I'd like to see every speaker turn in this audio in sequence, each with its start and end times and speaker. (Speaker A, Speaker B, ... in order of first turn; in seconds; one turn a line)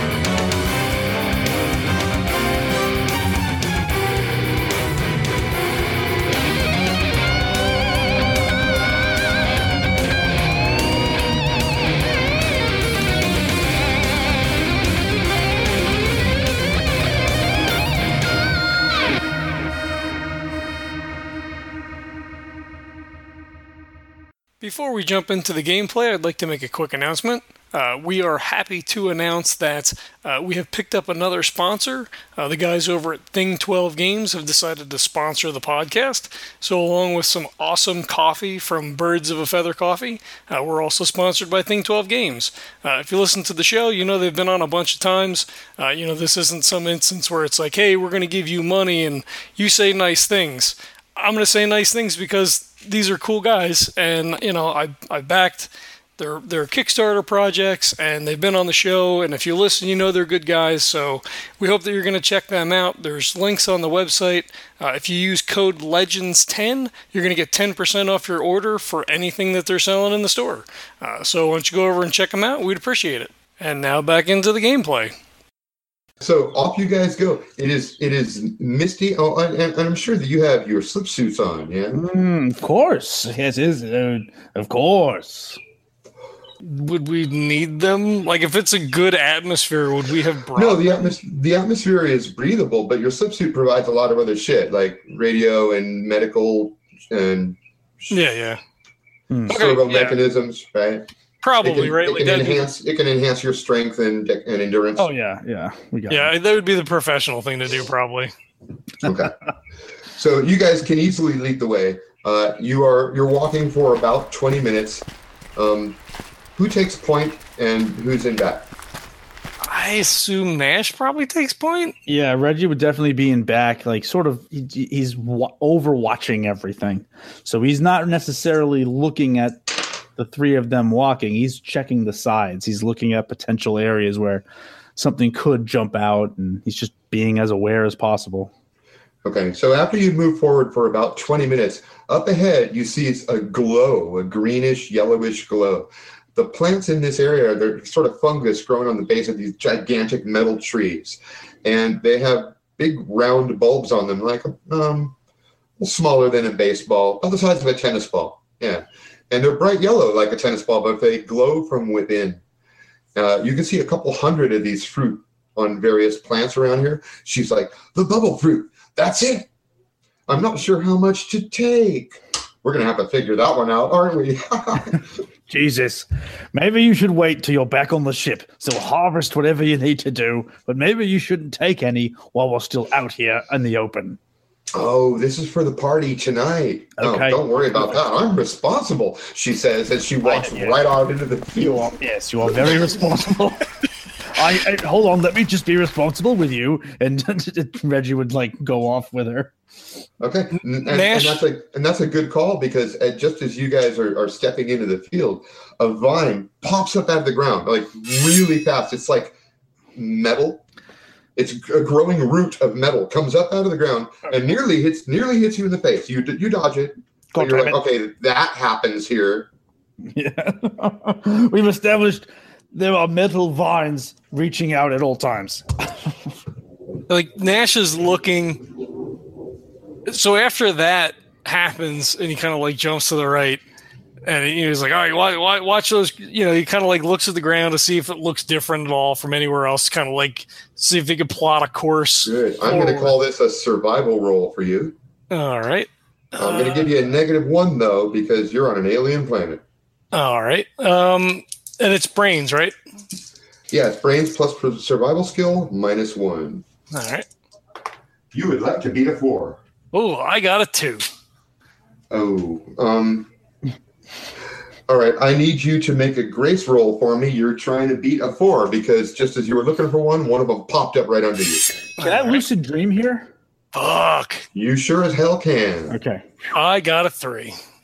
Speaker A: 24.6-75.1
Speaker B: 76.2-82.0
Speaker C: 81.9-85.6
Speaker A: 86.6-90.8
Speaker B: 90.6-98.2
Speaker A: 98.1-98.6
Speaker C: 99.3-99.6
Speaker B: 99.5-101.1
Speaker A: 99.5-100.2
Speaker A: 101.4-102.7
Speaker B: 101.6-105.1
Speaker C: 105.0-106.3
Speaker A: 106.1-108.3
Speaker B: 109.0-109.3
Speaker B: 110.1-115.0
Speaker B: 115.6-116.0
Speaker B: 116.6-118.7
Speaker A: 119.6-122.0
Speaker C: 122.1-134.4
Speaker C: 135.0-138.5
Speaker B: 139.2-155.2
Speaker B: 155.8-162.4
Speaker B: 163.2-169.5
Speaker B: 170.3-175.1
Speaker C: 175.5-184.2
Speaker B: 184.7-192.9
Speaker C: 187.0-187.4
Speaker C: 190.2-190.8
Speaker C: 192.0-193.7
Speaker C: 194.3-199.6
Speaker B: 200.2-209.3
Speaker A: 200.8-201.4
Speaker B: 209.9-210.6
Speaker B: 211.4-219.5
Speaker C: 217.3-217.8
Speaker C: 220.1-226.1
Speaker A: 227.1-228.7
Speaker A: 230.1-233.6
Speaker A: 234.3-243.2
Speaker B: 242.2-245.0
Speaker A: 245.3-246.9
Speaker B: 246.4-249.6
Speaker A: 250.1-252.7
Speaker B: 253.7-256.6
Speaker A: 256.9-257.3
Speaker B: 258.3-259.6
Speaker A: 259.9-261.1
Speaker B: 262.1-263.3
Speaker B: 264.9-271.7
Speaker A: 272.0-272.4
Speaker C: 272.0-273.3
Speaker A: 273.7-274.4
Speaker B: 274.5-276.0
Speaker C: 275.9-276.4
Speaker A: 276.5-277.6